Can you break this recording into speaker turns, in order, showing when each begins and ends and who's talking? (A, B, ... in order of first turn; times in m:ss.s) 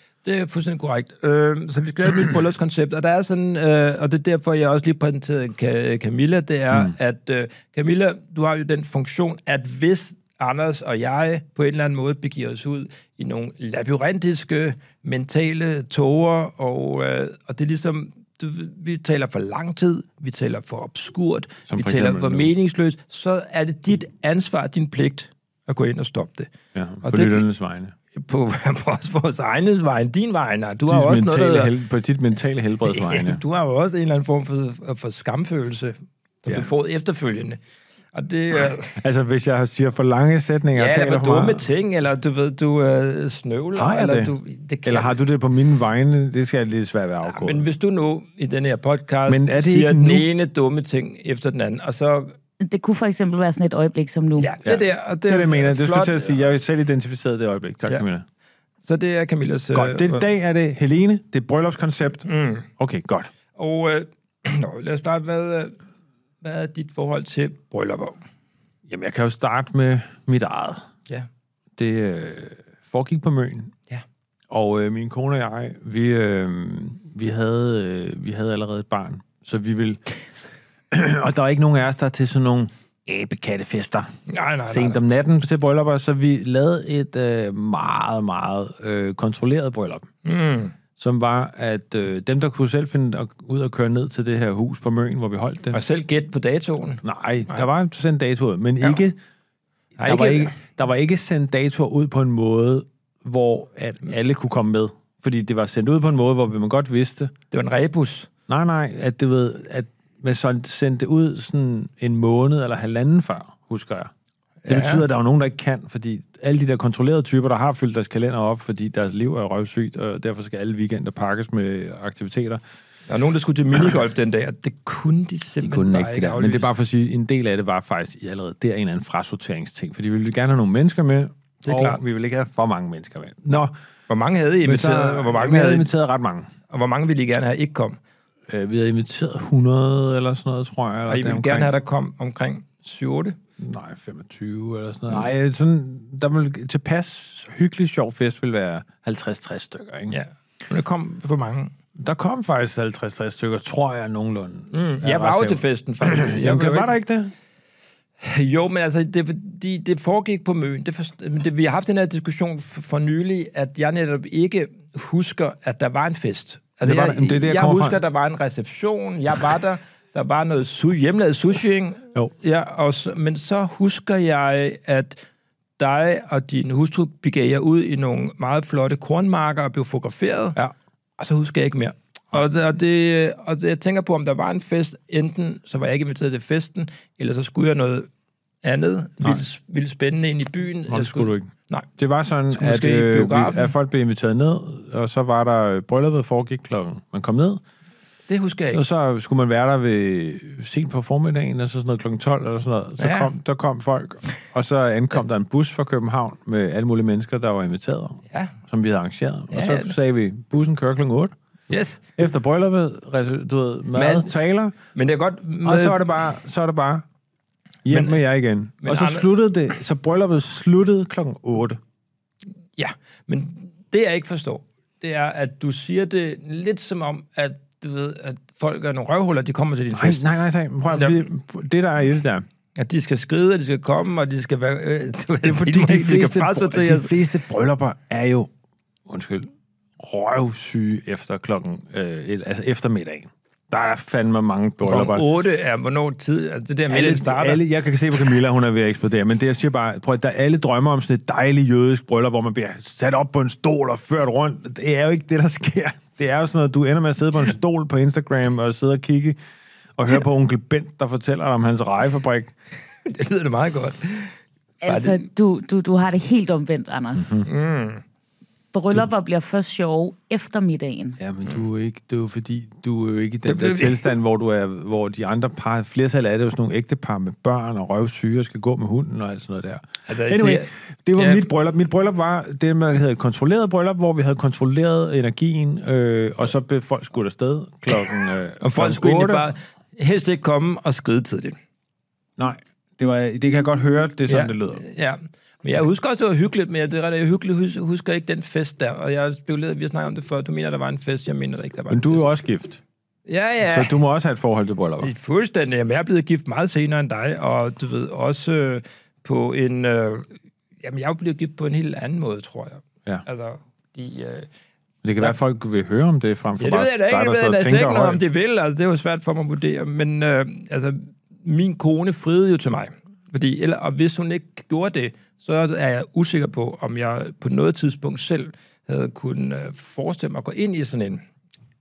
0:00.2-0:26.5 A
0:21.7-0:22.5 B
0:26.7-0:27.9 B
0:27.0-0:27.4 A
0:28.1-0:31.7 A
0:30.9-0:33.4 B
0:32.8-0:37.6 A
0:38.1-0:39.0 A
0:39.0-0:41.7 B
0:40.7-0:45.2 A
0:43.7-0:47.6 B
0:47.2-0:52.3 A
0:49.3-0:50.3 B
0:52.6-0:54.5 C
0:54.4-0:56.3 A
0:54.6-0:58.2 B
0:58.8-1:00.2 A
0:59.7-1:02.3 B
1:02.2-1:02.6 A
1:02.8-1:03.3 B
1:03.5-1:05.8 A
1:06.4-1:08.2 A
1:08.9-1:10.9 B
1:11.8-1:13.7 B
1:14.5-1:20.0 B
1:20.9-1:24.1 B
1:24.3-1:25.0 A
1:24.7-1:30.1 B
1:30.2-1:30.7 A
1:31.0-1:35.8 B
1:35.7-1:37.6 A
1:37.0-1:39.2 B
1:40.0-1:40.6 A
1:40.0-1:47.3 B
1:47.5-1:48.3 A
1:48.5-1:54.1 B
1:54.6-1:55.0 A
1:54.7-2:02.6 B
2:03.1-2:06.7 A
2:05.6-2:13.7 B
2:11.6-2:12.0 A
2:14.1-2:15.9 A
2:14.6-2:16.5 B
2:16.7-2:18.0 A
2:18.5-2:21.7 B
2:21.1-2:23.4 A
2:23.6-2:30.1 B
2:30.1-2:31.7 A
2:32.0-2:37.3 B
2:34.7-2:36.9 A
2:38.2-2:55.2 A
2:46.8-2:48.0 B
2:55.8-3:00.6 A
3:01.2-3:08.1 A
3:08.6-3:11.9 A
3:10.9-3:17.6 B
3:12.5-3:13.7 A
3:18.3-3:18.8 A
3:18.7-3:31.3 B
3:23.0-3:23.3 A
3:28.3-3:28.6 A
3:29.5-3:29.9 A
3:31.7-3:32.1 A
3:32.2-3:34.7 B
3:33.9-3:34.3 A
3:34.9-3:36.0 A
3:35.6-3:37.0 B
3:37.8-3:41.8 B
3:37.9-3:38.2 A
3:38.8-3:39.3 A
3:42.8-3:50.2 A
3:49.9-3:52.4 B
3:50.9-3:51.2 A
3:52.8-3:57.1 A
3:55.4-3:58.5 B
3:59.1-4:05.2 B
4:04.8-4:07.6 A
4:06.9-4:19.4 B
4:20.0-4:22.5 B
4:23.0-4:25.2 A
4:24.8-4:27.4 C
4:27.2-4:27.4 B
4:27.4-4:28.0 A
4:28.7-4:31.2 C
4:31.2-4:49.4 B
4:33.4-4:34.1 A
4:40.1-4:41.4 A
4:48.6-4:51.6 A
4:52.4-4:54.8 B
4:54.3-5:02.2 A
5:01.9-5:02.8 B
5:03.3-5:04.0 A
5:03.6-5:05.1 B
5:05.0-5:14.5 A
5:15.0-5:18.2 B
5:16.6-5:31.2 A